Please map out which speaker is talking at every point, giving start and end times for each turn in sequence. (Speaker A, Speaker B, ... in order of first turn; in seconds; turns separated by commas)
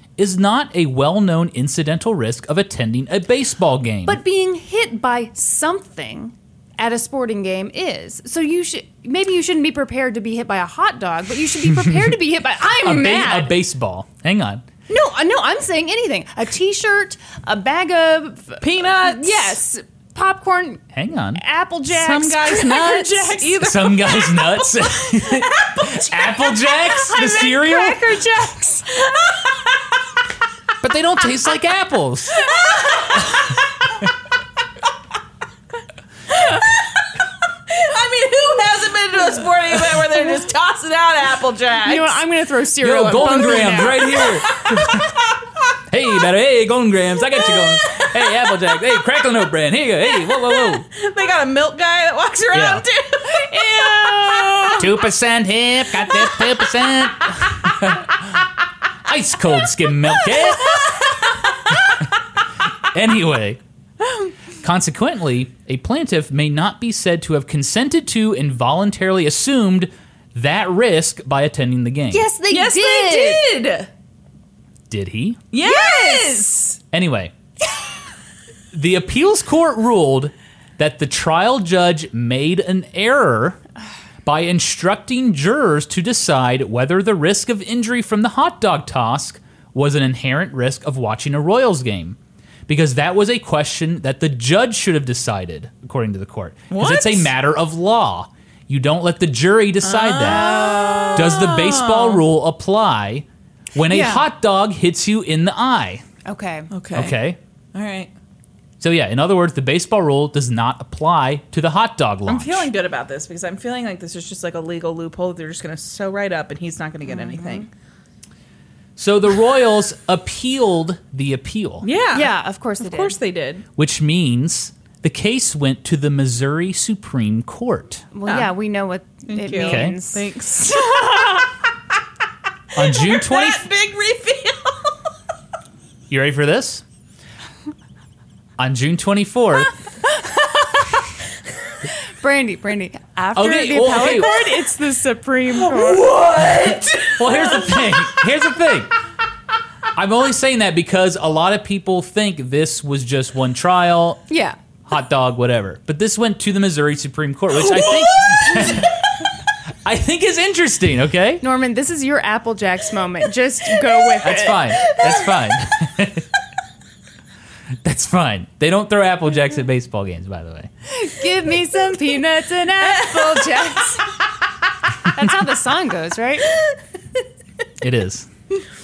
Speaker A: 0.2-4.2, Speaker B: 4.0-13.5, Speaker A: 11.7-12.1, Speaker A: 12.8-14.6, Speaker B: 14.9-20.8, Speaker C: 18.6-19.6, Speaker A: 20.9-21.4, Speaker B: 21.3-23.6, Speaker C: 21.9-24.6, Speaker A: 23.6-28.0, Speaker C: 25.2-26.1, Speaker B: 27.1-28.9, Speaker C: 29.1-29.7, Speaker A: 30.8-32.5, Speaker C: 32.5-33.5, Speaker C: 36.3-42.2, Speaker B: 41.8-44.2, Speaker A: 42.8-45.2, Speaker A: 45.9-50.9, Speaker C: 47.5-48.6, Speaker C: 50.2-54.9, Speaker A: 52.5-52.8, Speaker B: 53.5-54.8, Speaker A: 54.7-58.4, Speaker A: 59.0-61.0, Speaker C: 60.6-61.3, Speaker A: 62.9-63.6, Speaker A: 64.6-72.3, Speaker B: 72.1-73.4, Speaker C: 72.5-73.9, Speaker A: 74.9-75.5, Speaker C: 75.5-76.8, Speaker B: 75.6-76.4, Speaker A: 76.9-77.3, Speaker A: 78.7-83.6, Speaker A: 84.2-92.2, Speaker A: 92.7-106.0, Speaker C: 96.7-97.3, Speaker C: 99.8-102.2, Speaker B: 100.2-101.5, Speaker B: 103.9-104.2, Speaker B: 106.2-106.7, Speaker C: 106.7-107.2, Speaker A: 106.9-107.4, Speaker C: 107.7-108.1, Speaker A: 108.8-112.7, Speaker C: 112.2-117.7, Speaker B: 117.2-117.7, Speaker A: 119.0-121.9, Speaker C: 121.8-123.6, Speaker B: 122.1-123.2, Speaker A: 123.8-128.1, Speaker B: 128.1-130.2, Speaker C: 129.3-131.4, Speaker A: 129.6-130.0, Speaker A: 132.7-133.6, Speaker C: 132.8-135.1, Speaker A: 136.1-136.8, Speaker A: 138.6-139.7, Speaker B: 142.2-146.1, Speaker A: 143.3-144.3, Speaker C: 145.5-148.2, Speaker A: 147.1-148.9, Speaker A: 149.9-154.3, Speaker B: 154.3-154.6, Speaker A: 154.8-159.1, Speaker C: 157.5-158.8, Speaker A: 159.8-161.4, Speaker B: 161.4-164.7, Speaker A: 164.2-166.3, Speaker A: 167.8-170.7, Speaker B: 170.9-174.1, Speaker B: 175.0-176.5, Speaker A: 177.8-178.3